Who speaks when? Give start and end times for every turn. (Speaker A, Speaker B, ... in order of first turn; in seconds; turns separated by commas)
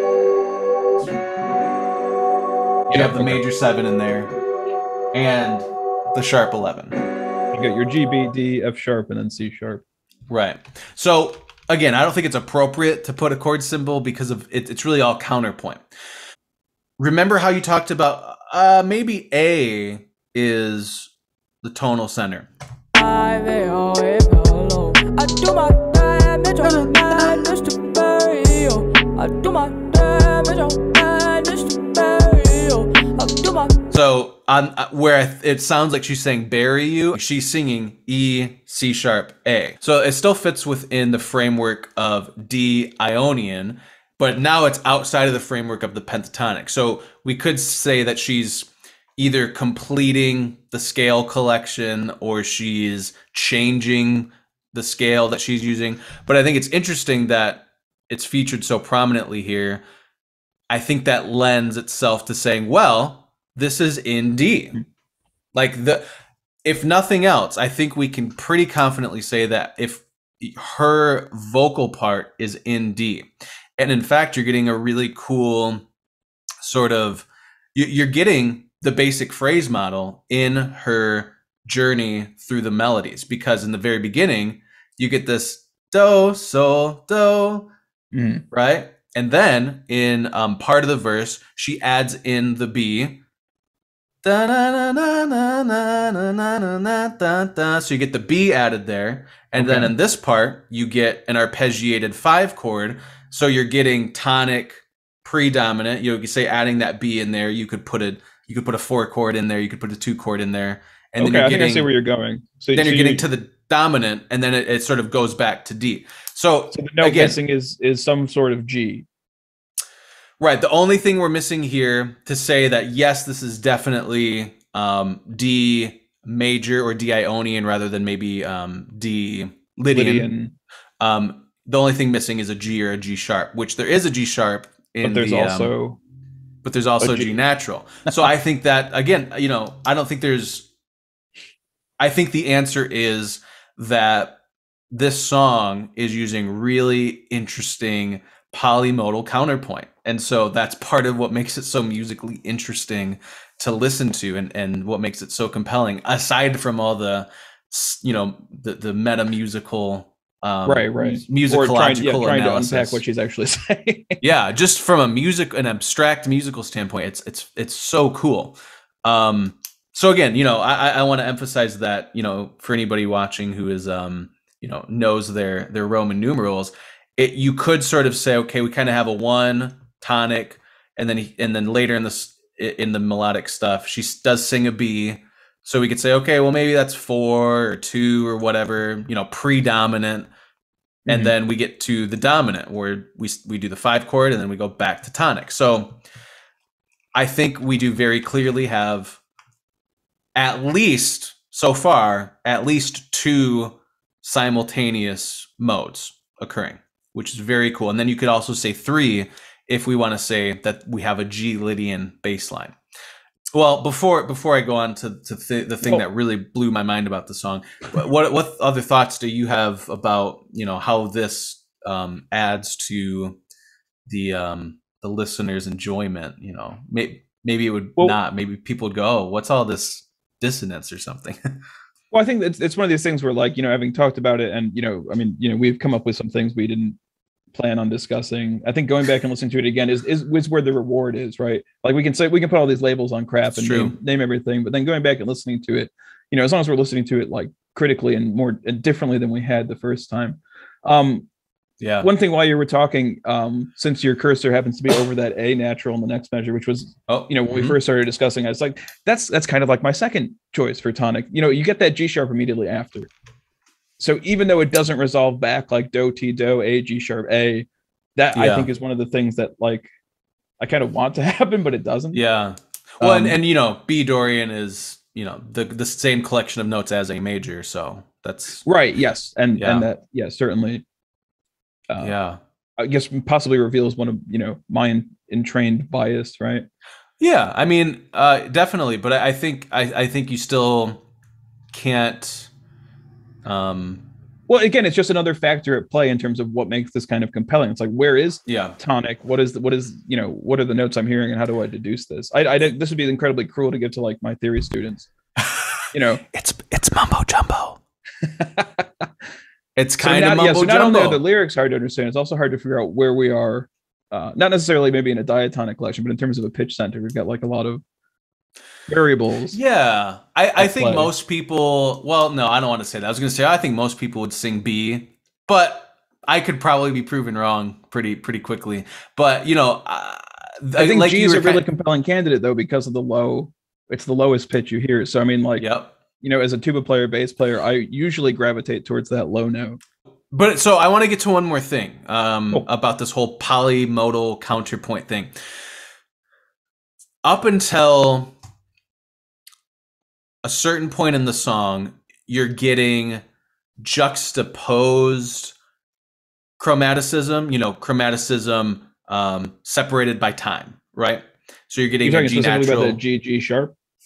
Speaker A: 2.9-3.4, Speaker B: 2.9-4.3, Speaker B: 5.1-7.0, Speaker A: 7.5-9.8, Speaker B: 10.3-15.8, Speaker B: 17.0-21.1, Speaker B: 21.6-22.5, Speaker C: 22.9-33.8, Speaker B: 26.6-27.5, Speaker B: 33.9-59.8, Speaker B: 60.7-64.8, Speaker B: 65.5-66.0, Speaker B: 66.6-75.8, Speaker B: 76.6-87.7, Speaker A: 88.1-88.4, Speaker B: 88.5-93.2, Speaker B: 94.2-111.9, Speaker A: 99.6-99.9, Speaker A: 111.2-113.2, Speaker B: 112.7-117.4, Speaker A: 116.7-119.0, Speaker B: 120.4-130.3, Speaker A: 129.9-130.5, Speaker B: 131.0-135.7, Speaker A: 135.0-136.0, Speaker B: 136.6-140.7, Speaker A: 137.0-137.3, Speaker B: 142.0-144.4, Speaker B: 144.9-163.0, Speaker A: 160.6-164.2, Speaker B: 164.2-190.3, Speaker B: 191.1-196.0, Speaker A: 191.1-191.3, Speaker B: 197.1-199.2, Speaker B: 200.3-212.8, Speaker B: 213.5-223.4, Speaker B: 224.1-231.4, Speaker A: 232.1-237.0, Speaker A: 237.5-251.3, Speaker B: 243.5-243.9, Speaker B: 251.8-252.1, Speaker A: 252.0-263.1, Speaker B: 257.1-257.8, Speaker A: 264.0-269.9, Speaker B: 268.3-268.7, Speaker A: 270.6-272.2, Speaker B: 272.1-278.6, Speaker A: 273.0-273.4, Speaker A: 278.6-280.8, Speaker B: 279.6-279.9, Speaker A: 281.9-282.1, Speaker B: 282.0-282.4, Speaker A: 282.8-286.7, Speaker B: 287.2-291.0, Speaker B: 291.7-292.5, Speaker B: 293.4-294.0, Speaker A: 294.5-305.1, Speaker B: 298.4-298.8, Speaker B: 305.4-305.7, Speaker A: 305.9-306.2, Speaker B: 306.2-307.8, Speaker A: 308.2-309.1, Speaker B: 309.8-311.2, Speaker A: 310.0-317.8, Speaker A: 318.9-319.6, Speaker B: 319.5-331.6, Speaker A: 320.6-321.1, Speaker A: 330.8-335.7, Speaker B: 335.6-335.9, Speaker A: 336.2-339.8, Speaker B: 340.3-345.3, Speaker B: 347.2-348.3, Speaker B: 350.4-353.2, Speaker B: 353.8-355.5, Speaker B: 356.6-363.0, Speaker A: 362.0-363.7